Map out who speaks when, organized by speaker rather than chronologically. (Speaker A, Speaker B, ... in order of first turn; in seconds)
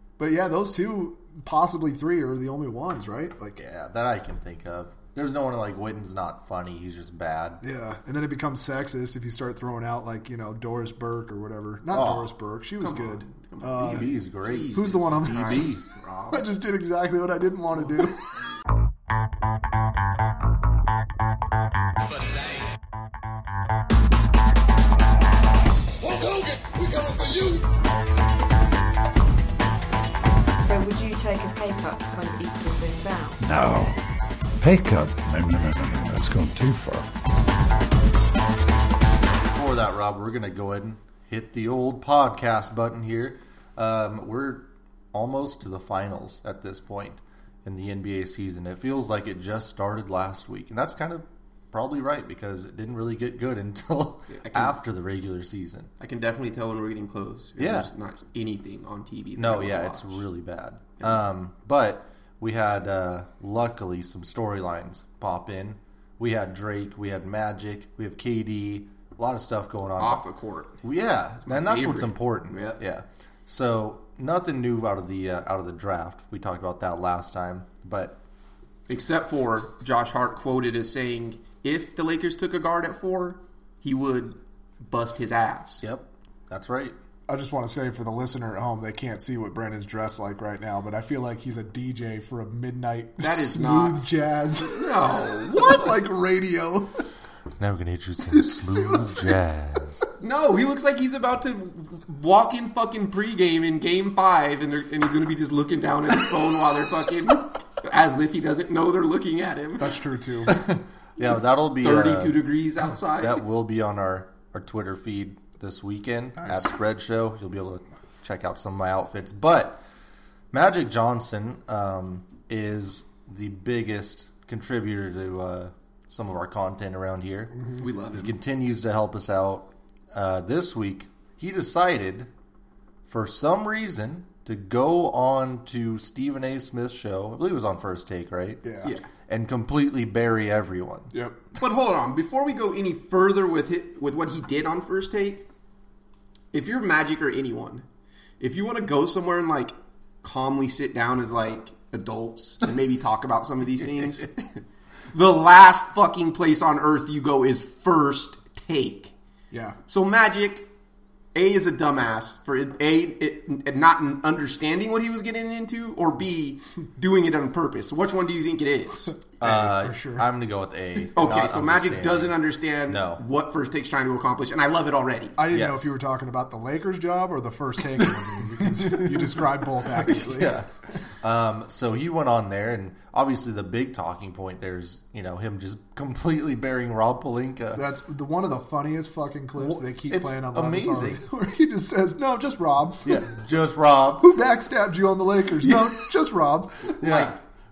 Speaker A: 0.2-3.6, 7.6-14.1, 14.7-15.7, 16.3-18.3, 87.3-97.0, 98.3-99.4, 109.8-110.5, 116.4-116.6, 127.5-127.8, 138.6-138.9, 141.1-141.4, 159.5-159.8, 169.4-170.3, 175.3-180.6, 187.7-193.3, 194.2-197.2
Speaker B: 3.5-7.6, 11.9-12.3, 13.8-15.8, 39.5-55.9, 57.6-57.9, 59.4-70.2, 70.8-78.2, 85.8-86.9, 97.6-100.1, 110.5-112.4, 113.2-119.8, 120.5-127.6, 128.1-132.3, 133.1-138.6, 139.3-141.1, 169.4-172.3, 172.9-173.2, 175.5-175.9, 178.7-179.3, 179.8-180.7, 181.2-187.8, 189.6-191.2, 193.0-194.3, 197.0-197.4
Speaker C: 12.8-16.4, 54.3-54.8, 56.0-60.2, 70.0-70.8, 71.4-72.8, 78.9-85.8, 93.2-94.0, 94.6-95.8, 100.2-110.0, 111.8-113.4, 127.8-128.4, 141.6-145.4, 146.5-147.8, 148.4-159.1, 159.9-160.7, 161.3-169.1, 171.2-175.4
Speaker D: 30.6-33.5
Speaker E: 33.4-34.0, 34.6-37.1